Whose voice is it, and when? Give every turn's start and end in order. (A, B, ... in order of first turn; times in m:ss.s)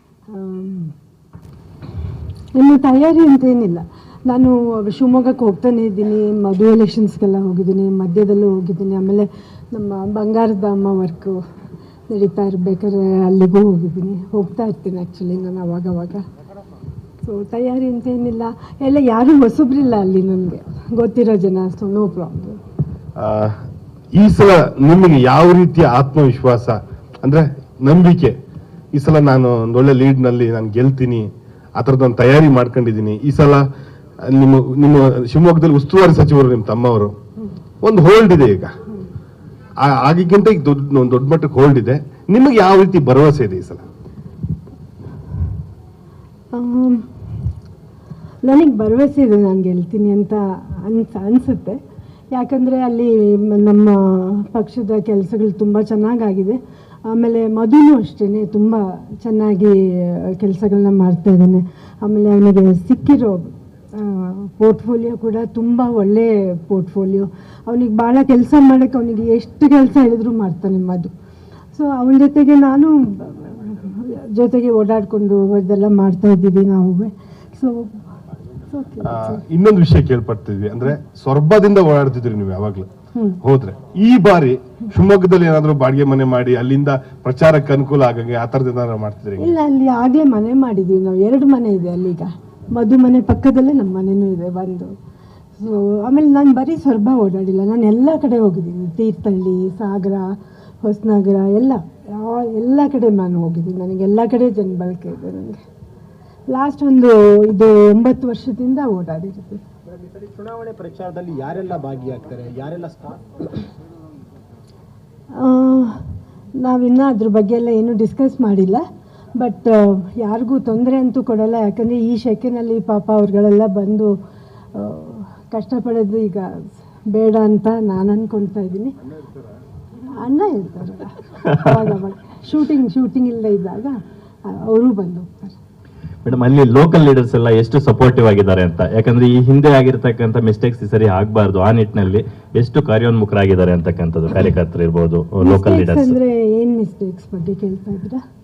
0:00.3-0:00.9 A
0:02.6-0:11.4 A
0:12.1-0:16.2 A
0:17.2-0:22.6 A
0:23.2-0:23.6 B
0:24.2-0:28.4 B
0:28.9-0:33.6 B
0:34.2-0:37.1 B
0:37.8-0:38.7 B
0:39.8-0:43.8 B
0:46.5-0:47.1 A
0:48.4-0:51.8 A
0:52.3-1:11.1 A
1:11.7-1:18.0 A
1:18.6-1:19.4 A
1:19.0-1:22.9 B
1:23.4-1:29.6 B
1:29.4-1:34.9 A
1:35.6-1:45.6 A
1:46.5-1:49.6 A
1:49.9-1:53.6 C
1:55.3-1:58.8 A
1:59.4-2:04.1 A
2:04.8-2:09.0 A
2:10.0-2:15.6 A
2:16.2-2:26.2 D
2:25.4-2:28.2 A